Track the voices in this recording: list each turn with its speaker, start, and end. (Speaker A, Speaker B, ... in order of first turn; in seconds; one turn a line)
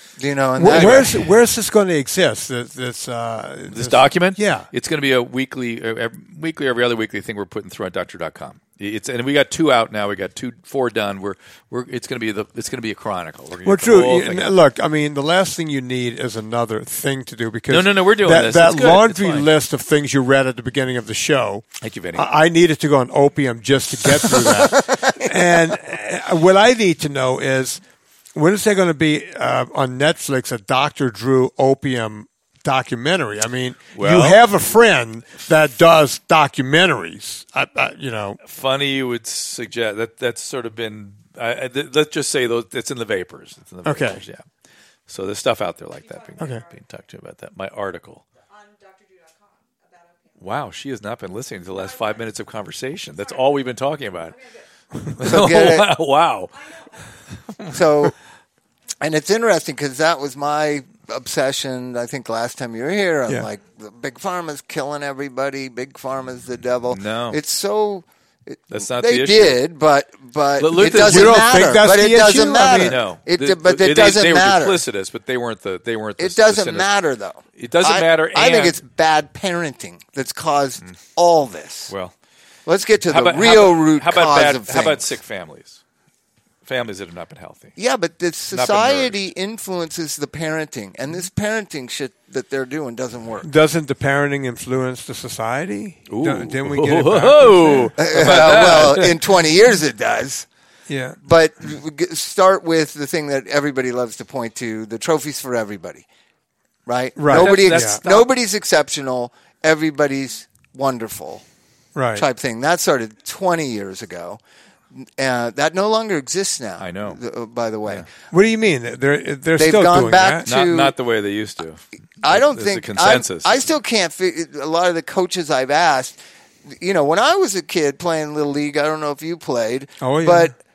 Speaker A: 0.2-1.1
Speaker B: 0.6-4.7
Speaker C: 0.7-1.1
Speaker C: 3.7-14.5
Speaker B: 13.7-27.8
Speaker C: 17.7-19.5
Speaker C: 21.8-22.3
Speaker A: 24.5-25.3
Speaker B: 28.4-38.4
Speaker C: 33.9-34.4
Speaker C: 38.4-44.4
Speaker B: 43.9-44.2
Speaker C: 45.1-48.2
Speaker B: 46.4-46.6
Speaker C: 50.4-54.4
Speaker C: 55.1-56.7
Speaker A: 55.2-55.9
Speaker C: 57.5-58.1
Speaker A: 57.7-58.1
Speaker A: 59.0-74.8
Speaker C: 66.9-67.4
Speaker C: 68.7-69.6
Speaker C: 70.6-71.6
Speaker B: 70.9-73.0
Speaker C: 72.8-76.9
Speaker A: 76.2-81.9
Speaker C: 77.6-78.8
Speaker C: 81.9-82.1
Speaker A: 82.7-85.0
Speaker C: 83.1-85.8
Speaker C: 86.7-87.7
Speaker A: 87.8-93.5
Speaker C: 88.5-89.2
Speaker B: 93.4-98.4
Speaker C: 96.1-99.2
Speaker A: 98.0-100.5
Speaker B: 100.9-101.2
Speaker A: 101.2-106.1
Speaker A: 106.9-111.4
Speaker B: 107.2-108.0
Speaker C: 107.3-108.3
Speaker B: 112.0-112.3
Speaker A: 112.2-114.4
Speaker A: 114.9-118.1
Speaker C: 116.8-117.2
Speaker B: 118.3-120.5
Speaker A: 119.6-120.9
Speaker C: 120.5-123.7
Speaker A: 122.2-130.6
Speaker B: 130.0-130.5